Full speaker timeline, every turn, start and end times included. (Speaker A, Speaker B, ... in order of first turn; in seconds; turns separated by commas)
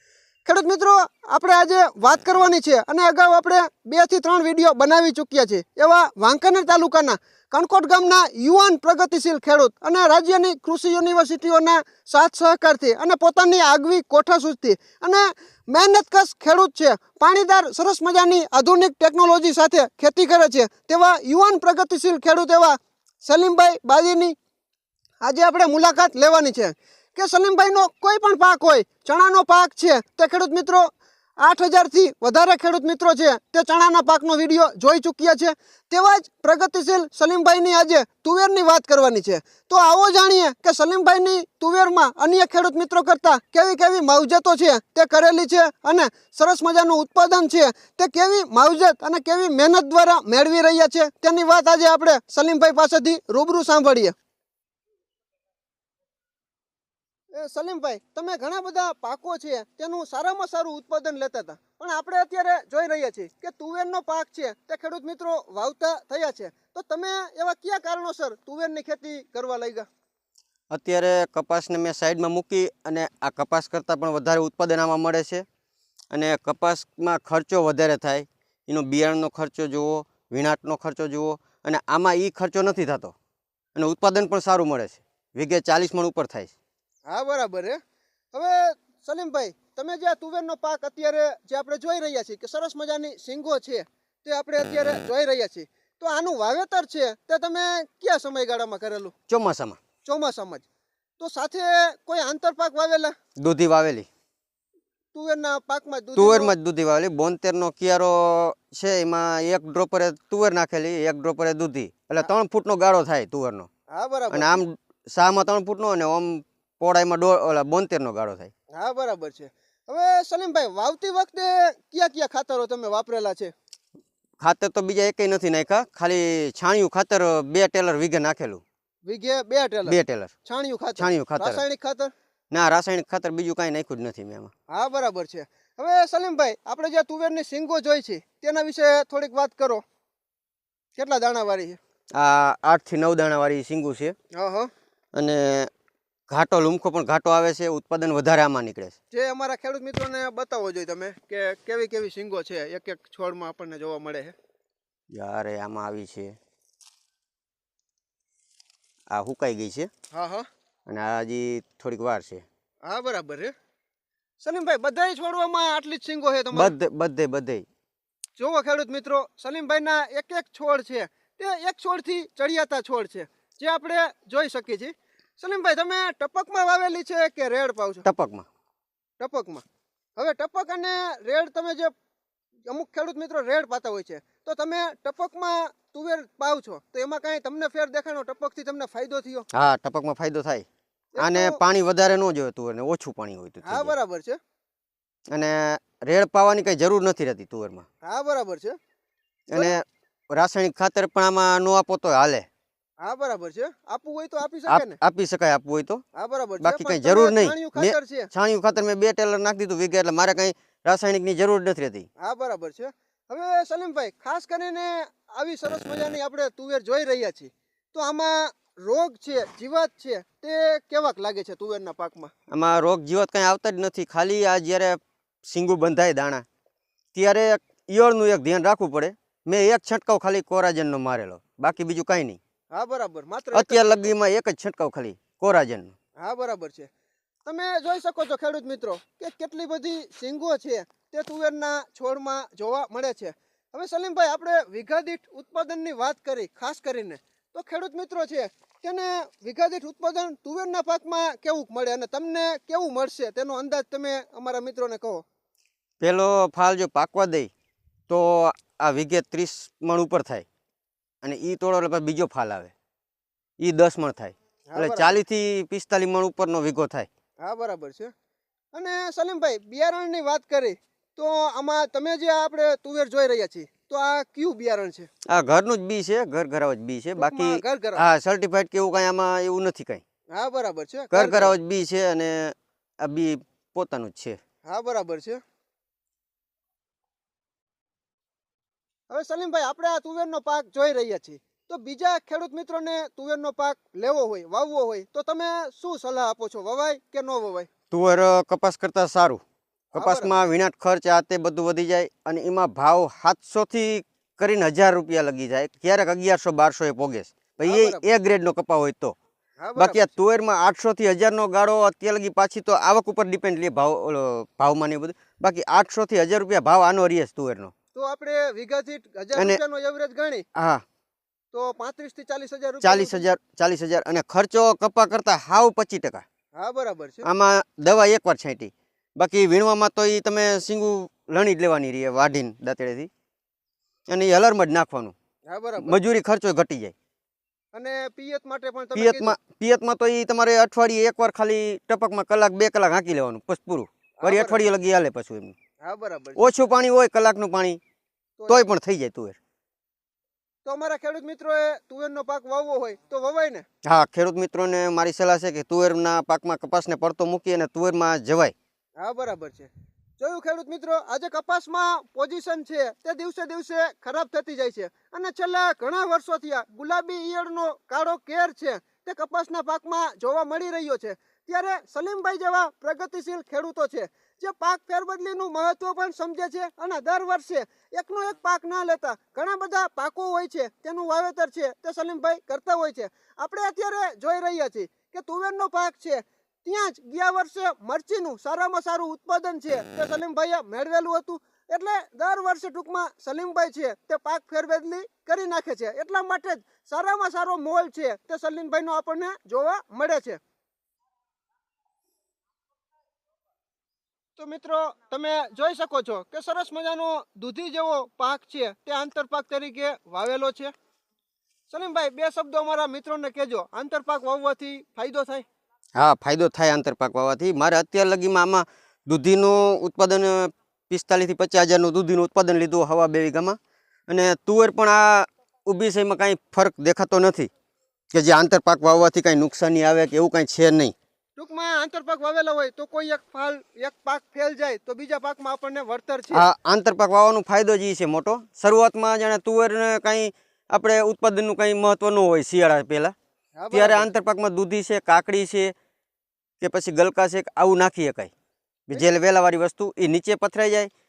Speaker A: 0.5-24.4, Speaker A: 25.2-54.1, Speaker A: 57.3-69.9, Speaker B: 70.7-75.5, Speaker B: 76.1-83.1, Speaker B: 83.8-86.5, Speaker A: 87.1-87.8, Speaker A: 88.3-99.1, Speaker B: 99.3-99.8, Speaker A: 100.0-100.6, Speaker A: 101.2-103.1, Speaker B: 103.4-104.1, Speaker A: 105.1-106.5, Speaker B: 106.2-113.7, Speaker A: 113.9-114.6, Speaker B: 114.3-118.5, Speaker A: 118.8-123.5, Speaker B: 124.4-128.6, Speaker A: 129.1-132.1, Speaker B: 129.9-130.3, Speaker B: 131.0-131.6, Speaker B: 132.5-134.5, Speaker A: 134.7-139.8, Speaker A: 140.9-141.8, Speaker B: 142.2-144.2, Speaker A: 144.3-144.7, Speaker B: 145.1-145.7, Speaker B: 146.3-149.0, Speaker A: 149.1-154.3, Speaker B: 155.1-156.3, Speaker B: 159.1-159.9, Speaker A: 160.1-160.5, Speaker B: 160.9-162.4, Speaker A: 162.8-163.5, Speaker A: 164.4-166.7, Speaker B: 166.5-167.7, Speaker A: 168.4-178.1, Speaker B: 178.1-178.5, Speaker A: 179.2-179.6, Speaker A: 180.2-181.9, Speaker A: 182.7-189.5, Speaker B: 189.5-190.7, Speaker A: 191.2-191.6, Speaker B: 191.2-193.9, Speaker A: 193.6-194.4, Speaker B: 195.3-197.9, Speaker A: 198.0-198.8, Speaker B: 199.5-202.5, Speaker A: 203.0-205.0, Speaker B: 204.7-206.0, Speaker A: 206.2-208.3, Speaker B: 206.6-212.1, Speaker A: 212.2-222.3, Speaker B: 222.5-226.4, Speaker B: 227.2-232.4, Speaker A: 232.7-234.1, Speaker B: 233.5-235.9, Speaker A: 236.2-236.9, Speaker A: 237.4-255.2, Speaker B: 256.0-257.5, Speaker B: 258.1-260.5, Speaker B: 261.2-262.7, Speaker B: 263.6-267.1, Speaker A: 264.7-265.2, Speaker A: 267.4-268.1, Speaker A: 268.7-275.1, Speaker B: 275.3-280.0, Speaker A: 277.2-278.0, Speaker A: 280.3-281.6, Speaker B: 281.1-284.4, Speaker A: 284.7-285.4, Speaker A: 289.1-297.7, Speaker B: 297.9-299.4, Speaker B: 299.9-309.2, Speaker A: 300.0-300.4, Speaker A: 307.6-308.1, Speaker A: 309.6-310.1, Speaker B: 309.8-317.7, Speaker A: 317.9-320.4, Speaker B: 320.6-320.8, Speaker A: 321.5-323.2, Speaker B: 322.8-326.2, Speaker A: 326.6-327.3, Speaker B: 327.2-333.1, Speaker B: 334.1-335.1, Speaker A: 335.5-336.0, Speaker B: 335.8-336.9, Speaker A: 337.7-339.4, Speaker B: 339.0-345.6, Speaker A: 344.2-344.7, Speaker A: 345.8-346.5, Speaker B: 346.4-347.8, Speaker A: 348.4-348.7, Speaker B: 348.5-349.4, Speaker A: 350.6-353.7, Speaker B: 353.9-358.5, Speaker A: 359.0-400.4, Speaker A: 404.4-410.7, Speaker A: 411.7-415.5, Speaker B: 416.0-423.6, Speaker B: 424.1-427.5, Speaker B: 428.1-430.9, Speaker A: 431.4-436.5, Speaker B: 436.3-443.1, Speaker A: 443.6-444.1, Speaker B: 443.7-445.7, Speaker B: 446.6-448.3, Speaker B: 448.9-450.9